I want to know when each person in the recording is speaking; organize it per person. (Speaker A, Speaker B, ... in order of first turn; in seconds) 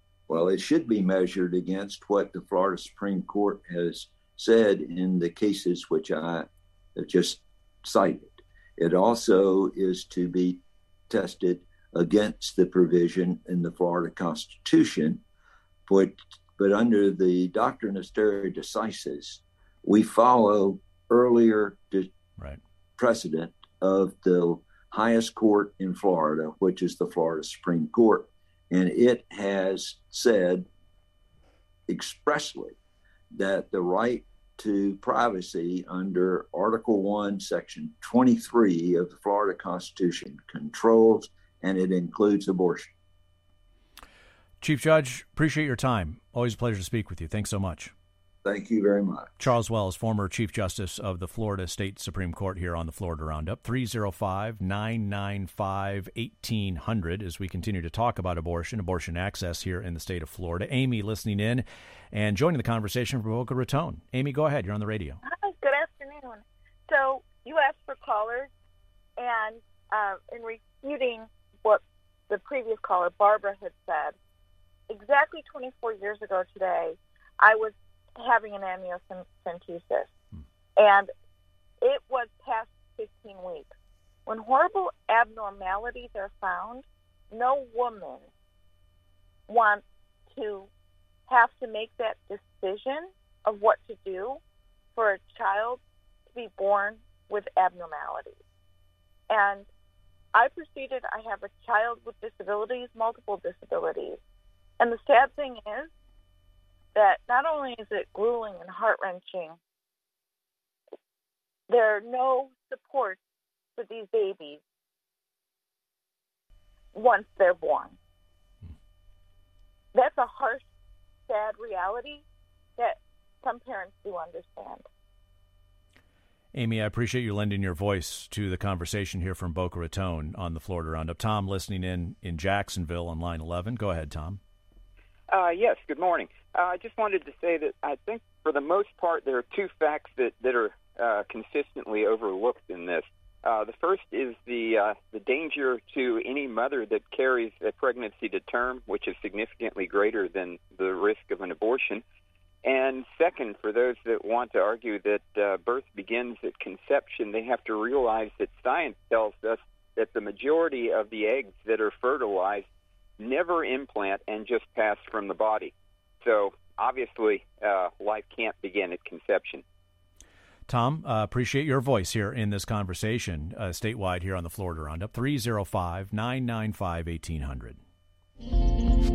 Speaker A: 0.3-15.2, 15.9-22.1, 23.0-30.7, 31.9-32.8, 33.3-42.9, 48.4-49.4
Speaker B: 44.6-47.9, 49.4-65.2, 126.5-134.4, 170.7-177.8
Speaker C: 65.2-68.5, 69.2-74.2, 74.9-80.1, 80.8-81.1, 81.8-83.7, 84.2-88.3, 89.5-90.7, 91.3-94.4, 94.9-95.8, 96.3-98.4, 99.3-99.7, 100.3-104.2, 104.8-105.9, 106.9-109.6, 111.7-113.2, 113.8-114.6, 116.9-118.0, 119.9-120.7, 121.3-122.2, 122.8-124.8
Speaker D: 135.3-152.0, 152.6-162.7, 163.2-169.6